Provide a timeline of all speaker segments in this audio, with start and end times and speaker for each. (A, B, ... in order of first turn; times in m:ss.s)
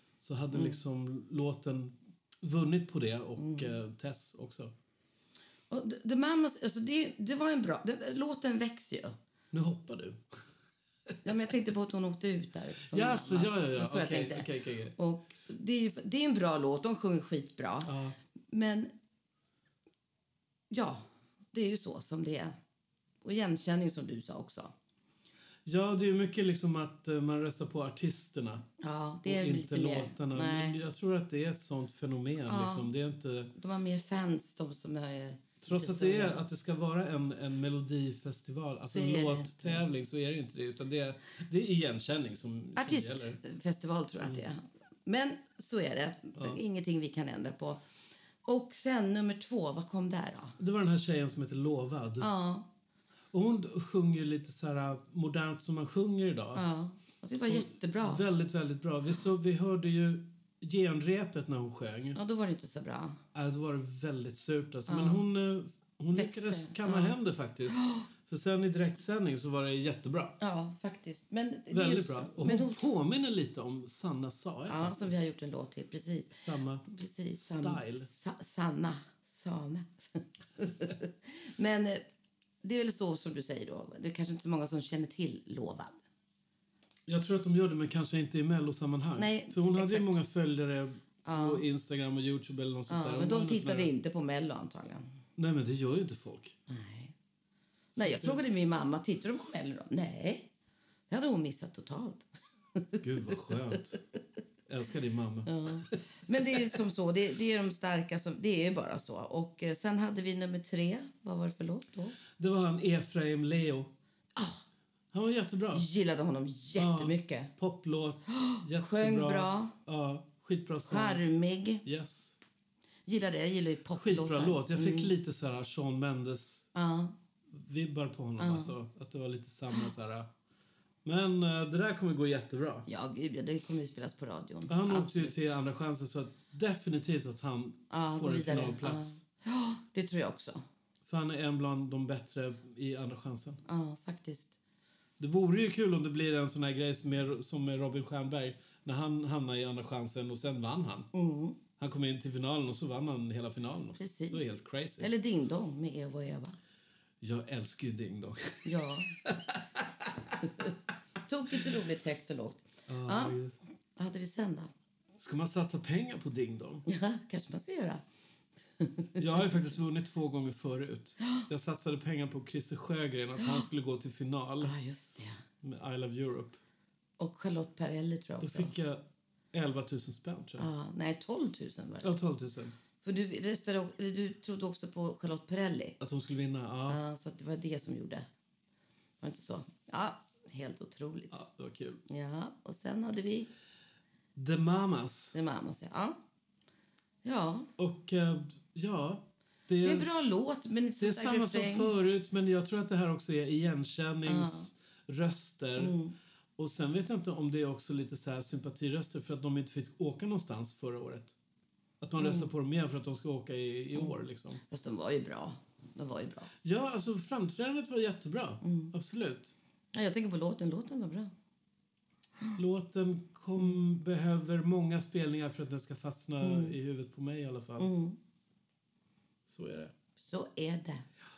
0:00.2-0:04.7 A
0:00.5-0:00.8 B
0:03.4-0:03.8 B
0:05.7-0:09.2 B
0:09.5-0:10.2 A
0:11.2-0:17.9 B
0:12.9-0:14.9 A
0:17.8-0:18.2 A
0:18.5-0:18.9 B
0:20.7-0:22.5 B
0:23.2-0:24.7 B
0:25.6-0:28.6 A
0:28.8-0:30.8 B
0:29.2-0:33.5 A
0:32.4-0:32.9 B
0:33.5-0:36.4 B
0:35.6-0:43.4 A
0:38.8-0:39.8 B
0:42.8-0:47.8 B
0:44.2-0:44.4 A
0:46.4-0:46.6 A
0:48.4-0:50.6 B
0:50.6-0:52.3 A
0:52.2-0:52.7 B
0:53.3-0:56.6 A
0:56.5-0:58.2 B
0:57.5-1:02.2 A
1:02.1-1:03.2 B
1:03.3-1:10.4 A
1:04.9-1:05.2 B
1:06.1-1:07.2 B
1:07.7-1:08.0 B
1:10.4-1:12.8 B
1:11.7-1:15.3 A
1:14.7-1:22.0 B
1:16.3-1:18.1 A
1:22.6-1:26.0 B
1:27.1-1:33.9 A
1:29.2-1:30.1 B
1:31.2-1:31.6 B
1:32.9-1:35.1 B
1:35.4-1:36.6 A
1:36.7-1:37.1 B
1:37.9-1:38.4 A
1:37.9-1:40.5 B
1:41.1-1:43.0 B
1:43.0-1:44.0 A
1:44.7-1:46.0 A
1:45.4-1:52.2 B
1:52.4-1:53.9 A
1:54.4-1:54.6 B
1:55.1-1:55.9 A
1:55.7-1:57.5 B
1:56.8-2:01.2 A
1:58.3-1:59.7 B
2:00.8-2:01.8 B
2:01.8-2:02.4 A
2:03.1-2:05.1 B
2:03.9-2:06.7 A
2:06.7-2:07.1 B
2:07.5-2:10.3 A
2:08.4-2:08.7 B
2:11.0-2:12.9 A
2:12.9-2:15.5 B
2:14.7-2:19.2 A
2:17.9-2:20.6 B
2:21.0-2:23.6 A
2:23.6-2:24.5 B
2:25.2-2:31.1 A
2:31.1-2:31.6 B
2:31.8-2:35.1 A
2:34.0-2:34.5 B
2:35.0-2:36.6 B
2:37.2-2:40.4 A
2:38.6-2:39.2 B
2:41.2-2:43.4 B
2:42.9-2:43.6 A
2:44.0-2:44.7 B
2:45.2-2:46.8 A
2:46.9-2:48.0 B
2:48.8-2:49.6 B
2:49.2-2:54.7 A
2:54.6-2:55.4 B
2:55.6-2:56.6 A
2:57.2-2:58.7 B
2:58.4-3:00.7 A
3:00.6-3:02.1 B
3:02.0-3:02.8 A
3:03.0-3:06.0 B
3:06.0-3:07.0 A
3:06.9-3:08.2 B
3:09.2-3:11.4 B
3:11.3-3:12.0 A
3:12.1-3:13.5 B
3:14.3-3:15.3 A
3:15.3-3:16.2 B
3:17.2-3:17.7 B
3:17.8-3:20.2 A
3:19.8-3:21.9 B
3:21.0-3:25.9 A
3:24.2-3:24.7 B
3:25.8-3:26.1 B
3:26.6-3:31.3 A
3:32.0-3:34.6 A
3:32.2-3:32.5 B
3:34.7-3:36.5 B
3:36.6-3:39.6 A
3:38.6-3:38.9 B
3:39.9-3:41.3 B
3:42.6-3:47.9 A
3:46.4-3:46.7 B
3:47.8-3:48.2 B
3:49.5-3:49.9 A
3:50.2-3:51.0 B